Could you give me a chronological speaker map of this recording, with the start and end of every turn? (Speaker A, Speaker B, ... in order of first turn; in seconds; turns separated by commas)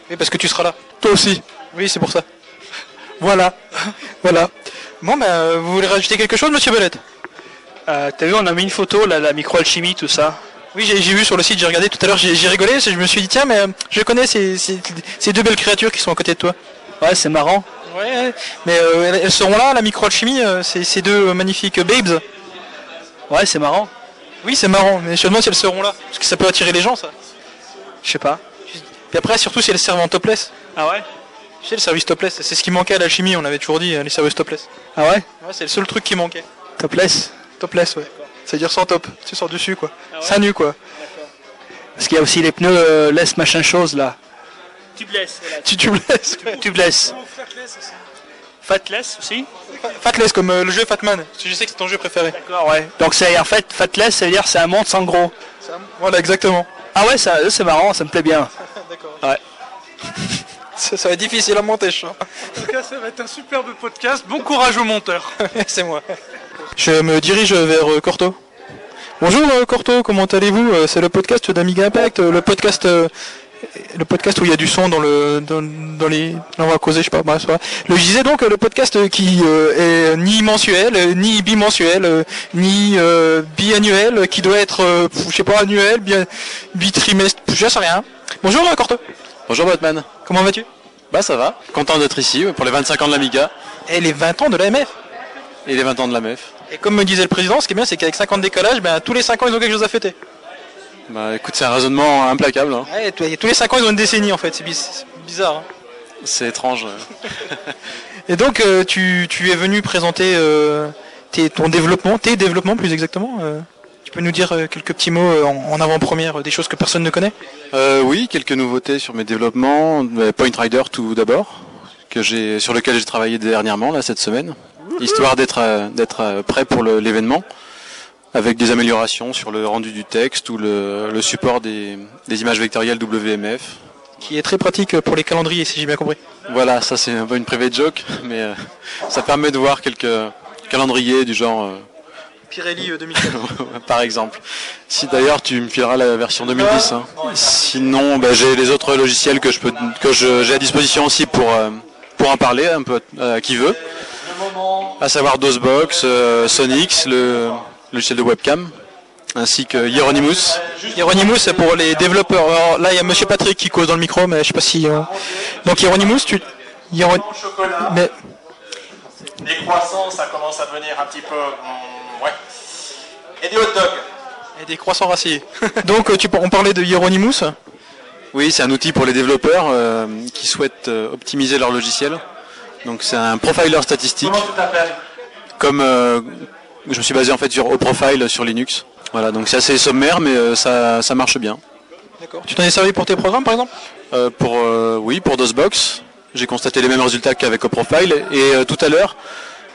Speaker A: 0.1-0.8, Speaker B: 1.0-1.4, Speaker A: 1.7-2.2, Speaker B: 3.2-3.5, Speaker A: 4.2-4.5, Speaker A: 5.0-7.0, Speaker C: 7.9-10.4, Speaker A: 10.7-16.6, Speaker C: 17.0-17.7, Speaker A: 17.9-22.2, Speaker C: 23.3-23.9, Speaker A: 24.4-27.1, Speaker C: 28.0-28.4, Speaker A: 28.7-30.5, Speaker C: 30.8-31.1, Speaker A: 31.6-34.7, Speaker C: 35.0-35.3, Speaker A: 35.4-36.5, Speaker C: 36.8-37.4, Speaker A: 37.6-40.8, Speaker C: 42.0-44.2, Speaker A: 45.5-46.6, Speaker C: 46.5-47.2, Speaker B: 47.1-47.9, Speaker C: 48.6-49.5, Speaker A: 49.8-52.4, Speaker C: 52.4-55.3, Speaker A: 55.6-56.7, Speaker C: 56.9-58.5, Speaker A: 58.7-59.2, Speaker A: 60.8-62.2, Speaker B: 62.5-65.3, Speaker A: 65.4-66.0, Speaker A: 66.8-68.4, Speaker A: 69.2-73.1, Speaker A: 73.7-89.0, Speaker D: 89.5-90.1, Speaker A: 90.2-90.7, Speaker D: 91.1-93.5, Speaker A: 93.9-94.9, Speaker D: 95.7-96.5, Speaker A: 96.7-100.2, Speaker D: 101.1-102.9, Speaker A: 102.9-105.7, Speaker D: 106.2-107.5, Speaker A: 108.3-117.3, Speaker D: 117.7-127.5, Speaker D: 128.3-133.8, Speaker A: 134.2-136.2, Speaker D: 136.5-141.9, Speaker A: 142.5-143.4, Speaker D: 143.2-153.8, Speaker D: 154.9-158.8, Speaker D: 159.3-160.6, Speaker E: 160.7-161.0, Speaker A: 160.9-165.1, Speaker A: 165.6-167.3, Speaker E: 167.3-167.9, Speaker A: 167.8-168.1, Speaker E: 169.4-172.4, Speaker E: 173.4-174.1, Speaker A: 174.6-177.6, Speaker D: 178.3-182.2, Speaker D: 182.8-184.5, Speaker D: 185.6-191.6, Speaker A: 192.2-193.7, Speaker D: 194.1-199.2